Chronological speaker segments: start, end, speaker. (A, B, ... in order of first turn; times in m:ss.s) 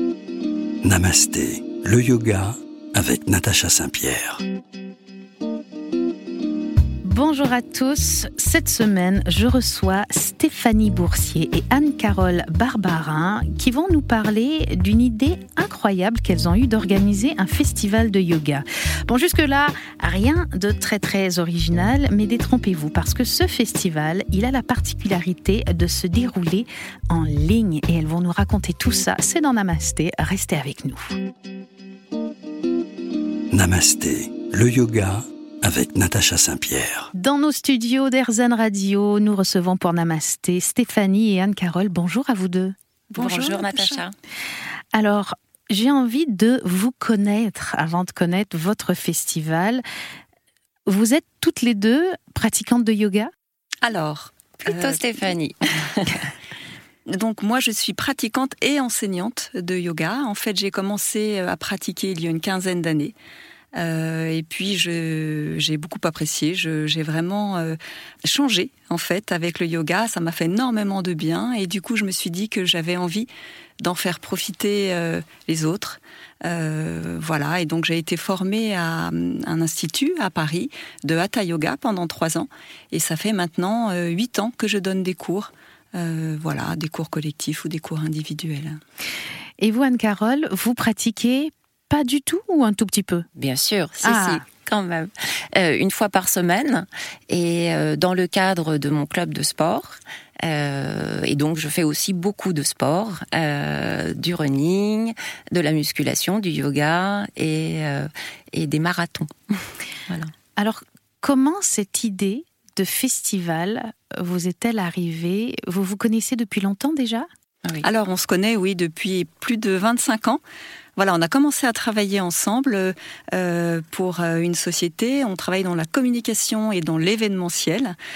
0:00.8-0:04.4 A
0:07.0-0:31.2 B
0:33.5-0:37.1 A
0:37.1-0:42.8 B
0:43.1-0:44.0 C
0:43.2-0:44.1 D
0:44.9-0:49.8 B
0:50.9-0:53.3 B
0:53.8-0:55.0 C
0:54.6-0:56.3 D
0:57.1-1:03.2 C
1:03.8-1:13.3 C
1:13.8-1:28.8 C
1:29.6-1:33.3 B
1:33.4-1:50.3 D
1:34.0-1:34.4 B
1:50.6-1:57.3 B
1:57.8-2:00.4 C
2:01.0-2:08.0 C